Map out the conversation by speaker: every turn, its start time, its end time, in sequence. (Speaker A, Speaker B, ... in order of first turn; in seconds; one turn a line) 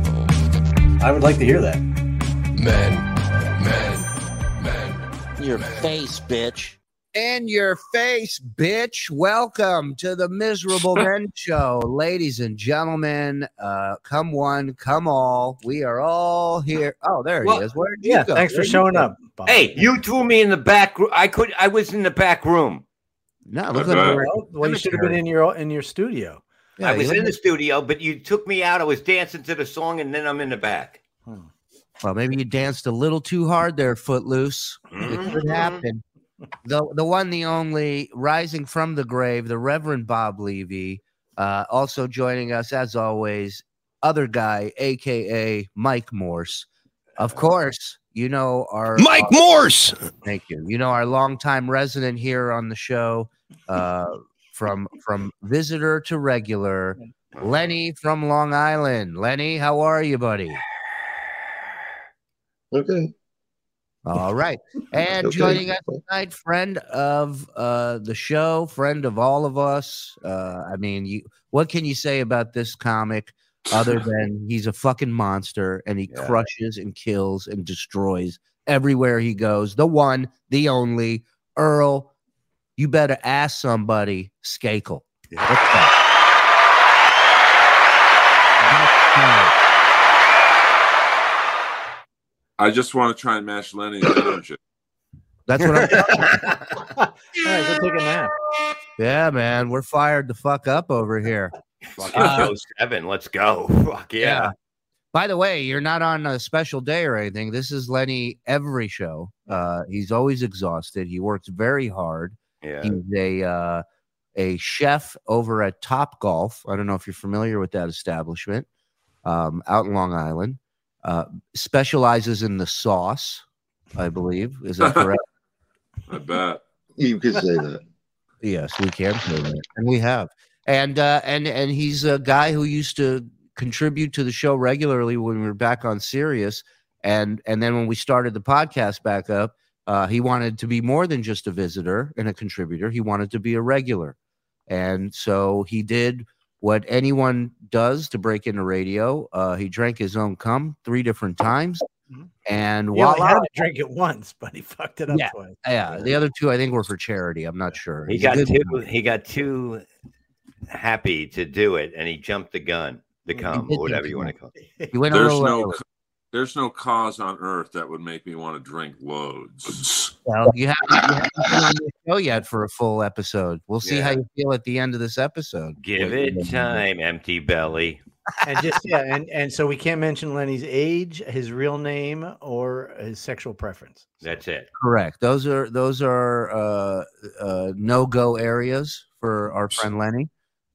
Speaker A: 1.0-1.8
Speaker B: 2.5-4.1
Speaker B: 4.6-5.9
Speaker C: 5.4-19.1
Speaker A: 18.0-19.8
Speaker D: 19.4-22.8
Speaker C: 23.5-25.2
Speaker E: 23.7-24.2
Speaker A: 23.9-26.4
Speaker C: 26.8-27.4
Speaker D: 26.8-31.0
Speaker C: 32.0-36.0
Speaker D: 34.9-35.8
Speaker A: 35.1-35.6
Speaker C: 36.6-46.7
Speaker C: 47.2-49.4
Speaker D: 49.0-50.0
Speaker C: 50.2-60.6
Speaker D: 57.4-57.7
Speaker F: 62.7-63.1
Speaker C: 64.0-82.1
Speaker F: 65.2-66.0
Speaker D: 76.1-76.4
Speaker C: 82.8-85.9
Speaker D: 85.3-85.8
Speaker C: 88.6-89.5
Speaker E: 92.6-94.6
Speaker C: 95.5-96.3
Speaker A: 95.8-96.0
Speaker D: 95.9-96.5
Speaker A: 97.0-98.3
Speaker C: 99.0-101.5
Speaker D: 101.9-104.5
Speaker C: 102.1-102.5
Speaker E: 102.2-102.4
Speaker C: 104.2-104.5
Speaker C: 105.1-113.8
Speaker D: 112.6-113.0
Speaker C: 114.3-118.7
Speaker C: 119.2-123.4
Speaker C: 124.0-125.2
Speaker E: 126.1-126.6
Speaker F: 127.0-127.8
Speaker C: 128.4-144.2
Speaker C: 144.7-151.8
Speaker C: 152.5-153.7
Speaker A: 152.9-155.6
Speaker C: 155.1-158.8
Speaker D: 158.1-159.8
Speaker D: 160.7-164.5
Speaker C: 163.5-164.3
Speaker A: 164.6-164.9
Speaker C: 164.9-165.8
Speaker E: 165.1-165.8
Speaker E: 166.3-170.1
Speaker C: 170.3-176.8
Speaker D: 173.8-174.2
Speaker D: 175.8-178.0
Speaker A: 178.4-184.3
Speaker D: 184.2-184.7
Speaker C: 184.8-190.3